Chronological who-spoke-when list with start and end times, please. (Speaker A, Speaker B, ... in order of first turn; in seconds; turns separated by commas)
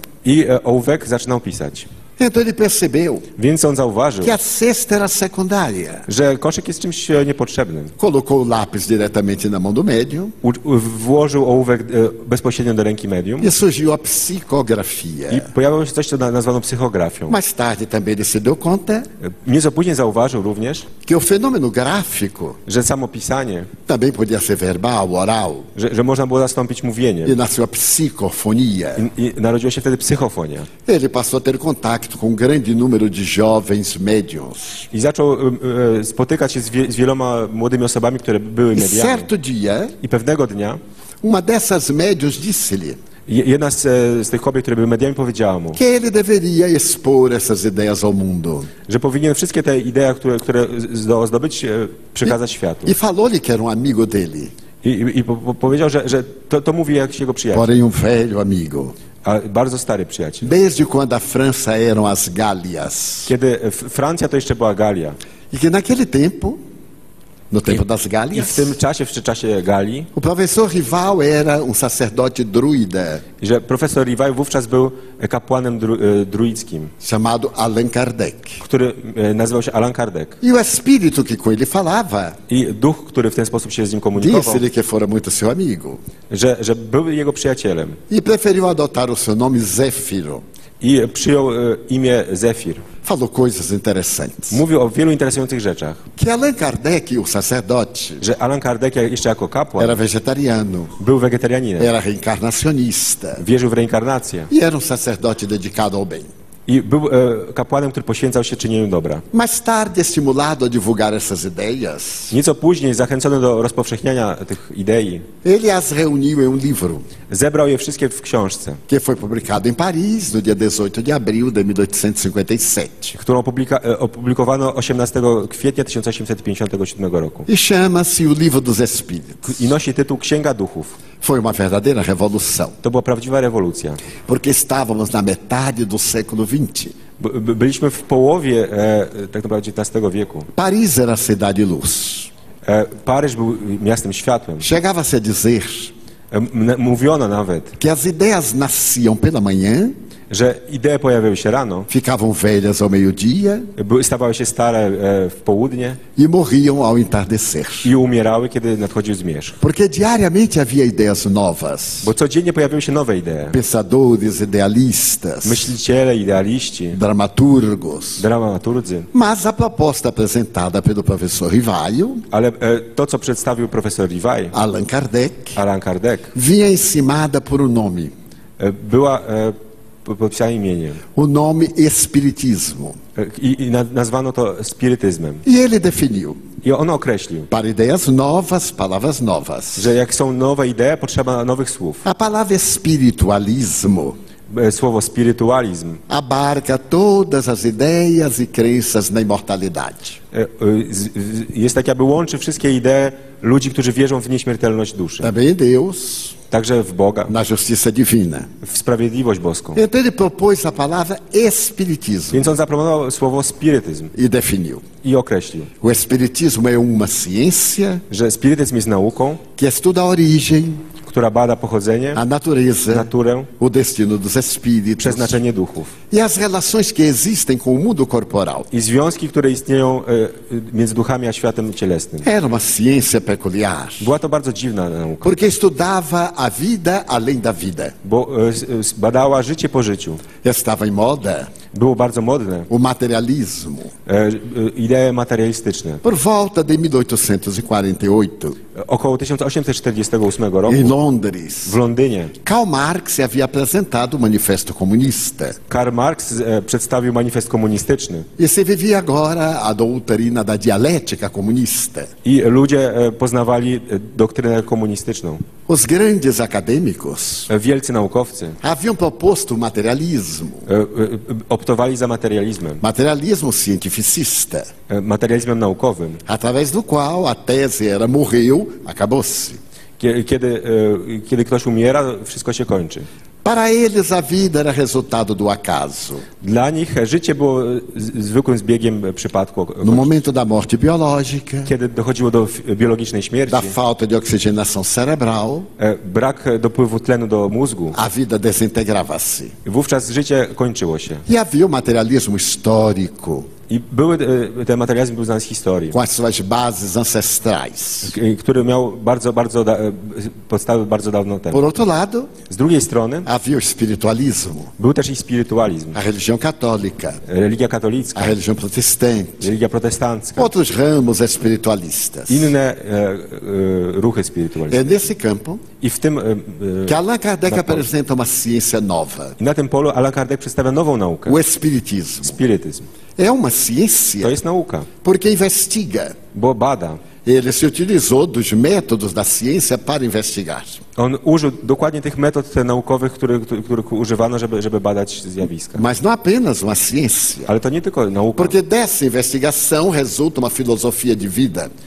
Speaker A: 0.2-1.9, Speaker B: 2.2-3.3, Speaker A: 3.4-4.3, Speaker B: 4.2-6.1, Speaker A: 6.1-7.9, Speaker B: 8.0-10.3, Speaker A: 10.4-13.5, Speaker B: 13.4-15.5, Speaker A: 15.3-17.4, Speaker B: 17.3-19.1, Speaker A: 19.2-20.9, Speaker B: 21.1-22.6, Speaker A: 22.6-23.7, Speaker B: 23.9-25.7, Speaker A: 25.7-27.4, Speaker B: 27.2-29.1, Speaker A: 29.0-30.7, Speaker B: 30.9-34.9, Speaker A: 34.9-39.3, Speaker B: 38.7-39.9, Speaker A: 40.0-40.8, Speaker B: 41.2-43.0, Speaker A: 43.3-45.8, Speaker B: 45.8-48.7, Speaker A: 48.9-53.0, Speaker B: 52.9-54.5, Speaker A: 54.8-57.7, Speaker B: 57.5-58.9, Speaker A: 59.2-60.5, Speaker B: 60.4-63.3, Speaker A: 63.2-65.2, Speaker B: 65.5-66.6, Speaker B: 67.5-68.8, Speaker A: 68.3-70.1, Speaker B: 70.1-73.2, Speaker A: 73.4-76.9, Speaker B: 77.0-78.6, Speaker A: 78.6-80.4, Speaker B: 80.4-82.4, Speaker A: 82.5-84.6, Speaker B: 84.2-86.0, Speaker A: 86.3-88.0, Speaker B: 88.1-90.4, Speaker A: 90.8-92.8, Speaker B: 93.0-94.6, Speaker A: 94.5-96.0, Speaker B: 96.2-98.2, Speaker A: 98.2-100.0, Speaker B: 99.8-101.0, Speaker A: 101.0-101.9, Speaker B: 101.8-103.4, Speaker A: 103.4-104.5, Speaker B: 104.5-106.3, Speaker A: 106.7-109.2, Speaker B: 109.3-112.3, Speaker A: 112.3-115.3, Speaker B: 115.4-117.1, Speaker A: 117.3-118.8, Speaker B: 118.9-123.2, Speaker A: 123.2-127.5, Speaker B: 127.5-129.6, Speaker A: 129.4-131.0, Speaker B: 131.2-132.8, Speaker A: 132.8-134.0, Speaker B: 134.3-136.9, Speaker A: 137.2-140.5, Speaker B: 140.5-142.3, Speaker A: 142.6-144.7, Speaker B: 144.6-145.9, Speaker A: 146.3-147.8, Speaker B: 147.8-149.9, Speaker A: 150.3-151.9, Speaker B: 151.9-153.7, Speaker A: 153.8-156.0, Speaker B: 156.2-157.9, Speaker A: 157.8-159.6, Speaker B: 159.6-162.1, Speaker A: 162.0-163.6, Speaker B: 163.5-165.7, Speaker A: 165.4-167.0, Speaker B: 166.9-168.2, Speaker A: 168.2-169.1, Speaker B: 169.1-172.2, Speaker A: 172.3-174.5, Speaker B: 174.5-175.6, Speaker A: 175.6-176.3, Speaker B: 176.3-178.1, Speaker A: 178.6-181.0, Speaker B: 181.1-183.0, Speaker A: 183.2-185.4, Speaker B: 185.4-186.4, Speaker A: 186.6-187.5, Speaker B: 187.5-189.9, Speaker A: 189.8-192.0, Speaker B: 192.0-194.2, Speaker A: 194.5-196.0, Speaker B: 196.1-200.2, Speaker A: 200.3-205.3, Speaker B: 205.2-206.3, Speaker A: 206.5-207.3, Speaker B: 207.3-208.5, Speaker A: 208.6-209.8, Speaker B: 209.8-212.6, Speaker A: 212.3-214.1, Speaker B: 214.1-214.8, Speaker A: 215.0-215.7, Speaker B: 215.8-218.0, Speaker A: 218.1-219.4, Speaker B: 219.6-220.9, Speaker A: 221.0-222.2, Speaker B: 222.1-225.4, Speaker A: 222.9-223.5, Speaker A: 225.0-225.9, Speaker B: 226.1-228.7, Speaker A: 228.7-232.3, Speaker B: 232.2-234.1, Speaker A: 234.0-235.4, Speaker B: 235.2-237.9, Speaker A: 238.0-240.2, Speaker B: 240.4-241.5, Speaker A: 241.7-242.7, Speaker B: 242.7-243.9, Speaker A: 244.1-246.0, Speaker B: 246.0-248.6, Speaker A: 248.8-250.9, Speaker B: 250.7-251.8, Speaker A: 251.7-252.3, Speaker B: 252.4-255.6, Speaker A: 255.7-258.3, Speaker B: 258.4-262.1, Speaker A: 262.2-265.4, Speaker B: 265.7-267.5, Speaker A: 267.5-268.6, Speaker B: 268.6-270.7, Speaker A: 270.7-272.8, Speaker B: 272.8-274.7, Speaker A: 274.9-276.2, Speaker B: 276.3-279.6, Speaker A: 280.0-283.1, Speaker B: 283.4-286.2, Speaker A: 286.4-290.1, Speaker B: 289.8-291.7, Speaker A: 291.6-293.7, Speaker B: 293.5-295.7, Speaker A: 295.8-298.0, Speaker B: 297.9-299.5, Speaker A: 299.6-301.2, Speaker B: 301.2-303.5, Speaker A: 303.7-306.0, Speaker B: 305.9-308.1, Speaker A: 308.0-311.6, Speaker B: 311.5-312.3, Speaker A: 312.5-313.3, Speaker B: 313.2-314.7, Speaker A: 314.8-316.0, Speaker B: 315.9-317.2, Speaker A: 317.2-318.3, Speaker B: 318.1-319.5, Speaker A: 319.4-320.5, Speaker B: 320.4-322.5, Speaker A: 322.3-325.1, Speaker B: 324.7-325.6, Speaker A: 325.8-327.9, Speaker B: 326.9-329.4, Speaker A: 329.4-331.4, Speaker B: 331.2-332.4, Speaker A: 332.2-332.9, Speaker B: 333.2-334.4, Speaker A: 334.2-334.9, Speaker B: 335.0-336.2, Speaker A: 336.3-337.0, Speaker B: 337.2-340.8, Speaker A: 341.0-345.8, Speaker B: 345.8-347.5, Speaker A: 347.5-348.6, Speaker B: 348.4-351.7